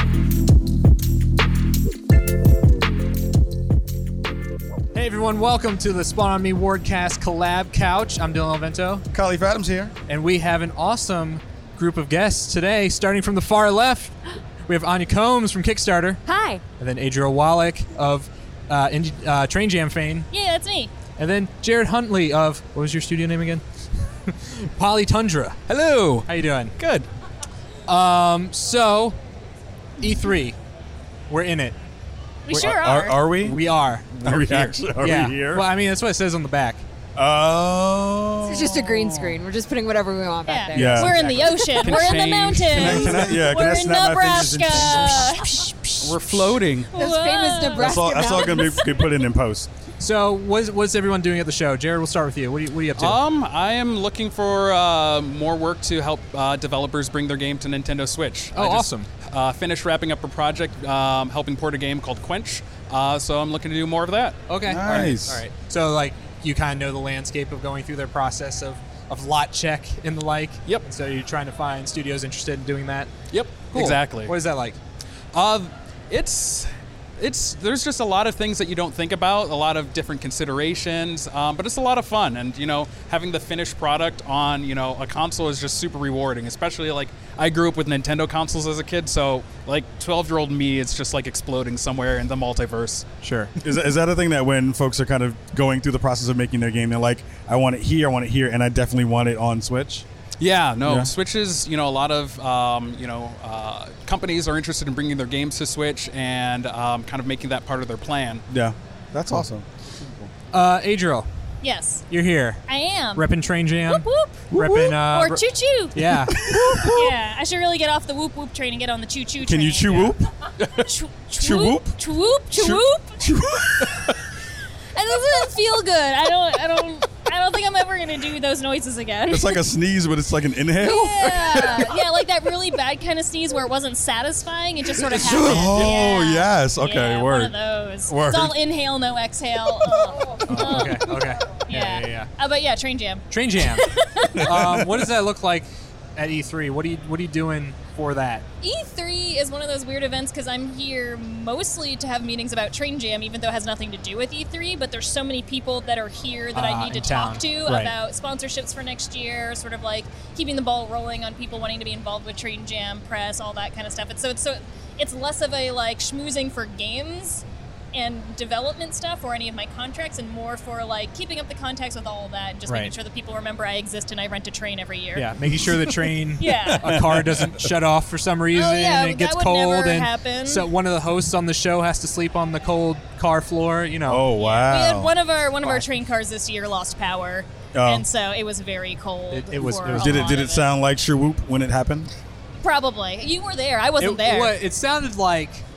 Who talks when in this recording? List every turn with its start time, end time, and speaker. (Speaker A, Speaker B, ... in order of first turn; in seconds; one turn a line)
Speaker A: 4.9-9.1
Speaker B: 9.1-9.9
Speaker A: 10.1-16.2
Speaker C: 16.2-16.6
Speaker A: 16.8-20.3
Speaker D: 20.3-20.9
Speaker A: 21.2-23.6
Speaker A: 24.2-25.6
Speaker E: 25.7-27.1
Speaker A: 26.3-26.7
Speaker A: 27.9-29.2
Speaker A: 30.0-30.6
Speaker A: 31.3-31.8
Speaker D: 32.5-33.3
Speaker B: 32.5-35.7
Speaker A: 33.4-34.4
Speaker A: 35.0-36.8
Speaker B: 37.1-39.3
Speaker C: 38.4-42.1
Speaker D: 40.5-48.7
Speaker B: 40.7-41.2
Speaker E: 41.0-43.2
Speaker B: 42.7-45.4
Speaker E: 46.0-46.9
Speaker C: 46.9-48.9
Speaker B: 47.8-49.7
Speaker A: 50.0-53.2
Speaker E: 53.0-65.1
Speaker A: 58.5-59.1
Speaker A: 64.5-74.8
Speaker B: 64.6-65.4
Speaker E: 73.3-74.3
Speaker E: 75.3-93.0
Speaker A: 93.2-93.5
Speaker B: 93.6-100.0
Speaker E: 100.4-108.4
Speaker B: 100.8-101.1
Speaker B: 108.5-110.3
Speaker A: 110.5-111.3
Speaker D: 111.6-112.0
Speaker A: 112.1-112.6
Speaker D: 112.7-113.3
Speaker A: 113.2-115.4
Speaker D: 113.9-120.2
Speaker A: 115.9-116.5
Speaker B: 116.4-117.1
Speaker B: 119.4-122.0
Speaker D: 120.7-123.4
Speaker B: 122.5-124.1
Speaker D: 124.9-129.6
Speaker B: 129.3-132.0
Speaker D: 130.7-144.7
Speaker A: 135.0-135.8
Speaker B: 135.1-137.6
Speaker B: 138.1-138.6
Speaker A: 140.4-142.3
Speaker A: 143.3-148.4
Speaker B: 144.3-145.0
Speaker D: 148.6-175.3
Speaker A: 156.5-157.9
Speaker A: 172.7-172.9
Speaker A: 175.1-184.2
Speaker B: 175.7-175.9
Speaker D: 176.4-176.9
Speaker B: 176.8-177.7
Speaker D: 178.5-180.7
Speaker B: 184.1-185.1
Speaker D: 184.3-190.7
Speaker B: 187.7-188.0
Speaker A: 189.3-190.4
Speaker B: 189.9-192.1
Speaker D: 192.6-194.6
Speaker A: 194.0-195.6